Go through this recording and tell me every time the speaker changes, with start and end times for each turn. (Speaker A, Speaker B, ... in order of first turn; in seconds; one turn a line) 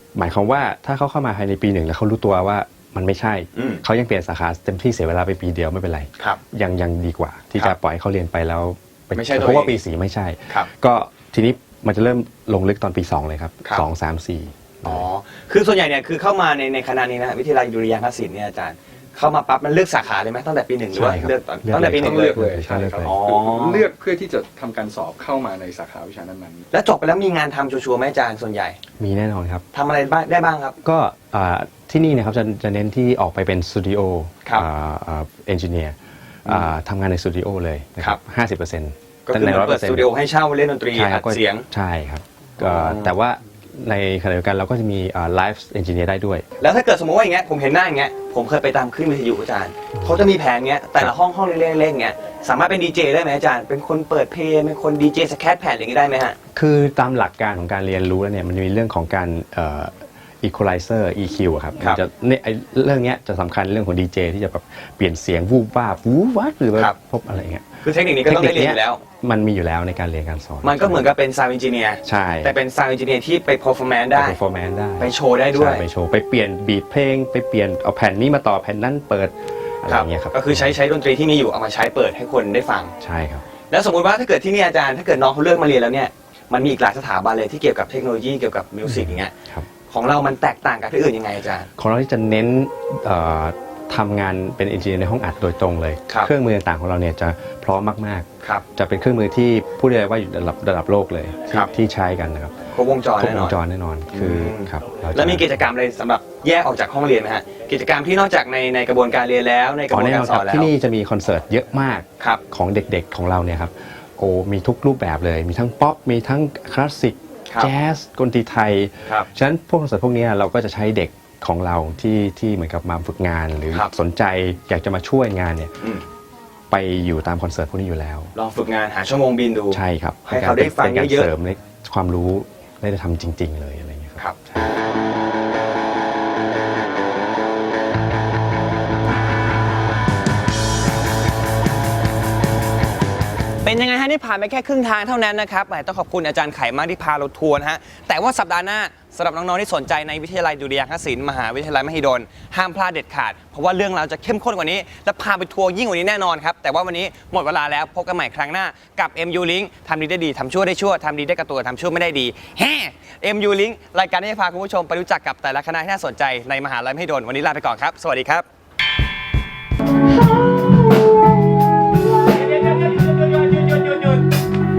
Speaker A: 0.1-15.1
Speaker B: 3.5-3.8
Speaker B: 9.1-9.8
Speaker B: 14.8-22.3
Speaker A: 20.9-23.1
Speaker C: 21.7-26.6
Speaker B: 23.0-23.9
Speaker B: 26.7-28.8
Speaker A: 29.0-29.6
Speaker B: 29.7-30.8
Speaker A: 30.8-40.1
Speaker B: 36.5-36.7
Speaker B: 39.3-41.6
Speaker A: 40.9-46.4
Speaker B: 42.6-43.1
Speaker B: 46.6-56.4
Speaker A: 56.5-71.1
Speaker B: 67.8-69.0
Speaker B: 70.6-74.4
Speaker A: 72.0-72.5
Speaker A: 74.1-80.8
Speaker B: 75.0-75.8
Speaker B: 79.9-82.9
Speaker A: 83.0-83.4
Speaker B: 83.7-89.3
Speaker A: 88.8-89.7
Speaker B: 89.9-91.7
Speaker A: 91.8-105.6
Speaker B: 102.7-103.6
Speaker B: 104.1-110.7
Speaker A: 109.9-125.7
Speaker A: 126.7-128.3
Speaker B: 128.3-131.3
Speaker A: 129.7-134.7
Speaker B: 143.6-168.4
Speaker B: 172.1-174.2